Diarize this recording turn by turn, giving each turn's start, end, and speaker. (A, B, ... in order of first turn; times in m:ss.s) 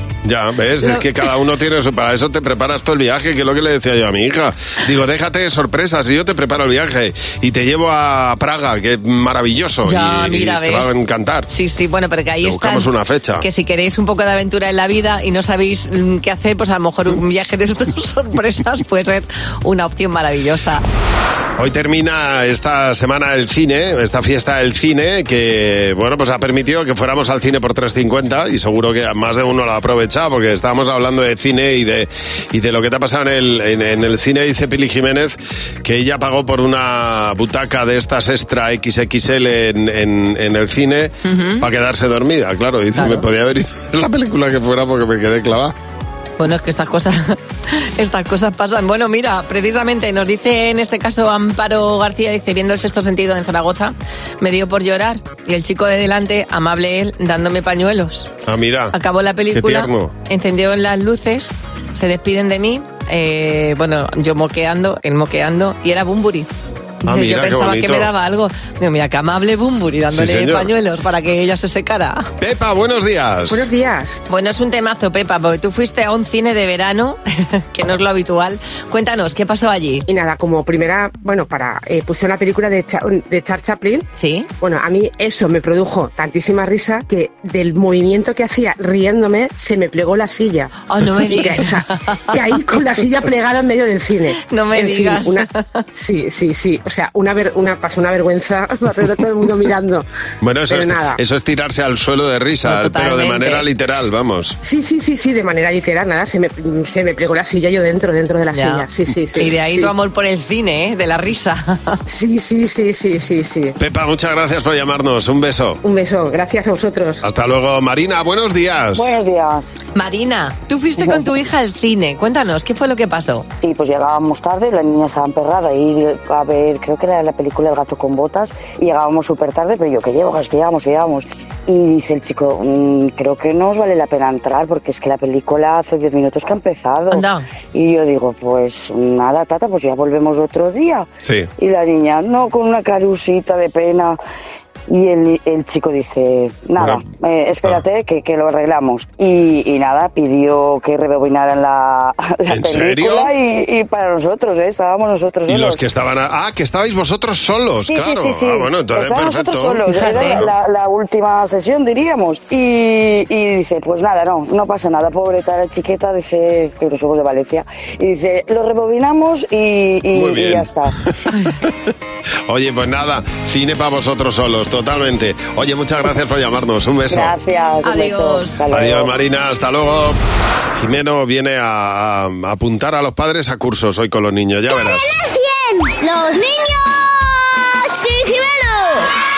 0:00.2-0:11.5 A
0:00.8-0:01.1 B
0:09.8-0:11.0 B
0:11.5-0:12.9 B
0:12.4-0:13.4 A
0:13.4-0:20.8 B
0:21.6-0:45.7 A
0:41.2-0:41.6 B
0:42.9-0:43.2 B
0:46.4-0:58.3 B
0:58.4-0:58.9 A
0:58.9-1:06.5 B
0:59.5-1:00.1 A
1:07.0-1:08.1 A
1:07.0-1:12.3 B
1:10.1-1:10.7 A
1:12.4-1:13.7 A
1:13.5-1:14.2 C
1:14.3-1:20.0 B
1:20.1-1:24.0 C
1:24.2-1:24.5 B
1:24.6-1:30.7 C
1:30.9-1:32.2 B
1:31.3-1:31.8 C
1:32.4-1:35.4 C
1:34.4-1:35.6 B
1:36.0-1:40.0 C
1:40.4-1:44.6 A
1:40.8-1:41.1 C
1:42.6-1:43.7 B
1:44.6-1:49.9 C
1:48.5-1:52.0 B
1:52.1-1:53.7 C
1:53.8-1:55.8 A
1:55.8-1:57.2 C
1:57.2-1:59.1 A
1:58.9-1:59.7 D
1:59.9-2:03.4 B
2:03.6-2:24.2 D
2:17.1-2:17.4 B
2:21.2-2:21.5 A
2:24.9-2:35.8 D
2:26.8-2:27.0 A
2:32.5-2:33.3 A
2:35.5-2:40.5 A
2:37.8-2:50.9 D
2:50.1-2:50.7 A
2:52.5-2:57.3 A
2:57.1-2:59.1 D
2:57.8-2:58.6 B
2:58.7-3:00.2 A
3:00.7-3:05.2 A
3:04.7-3:09.1 E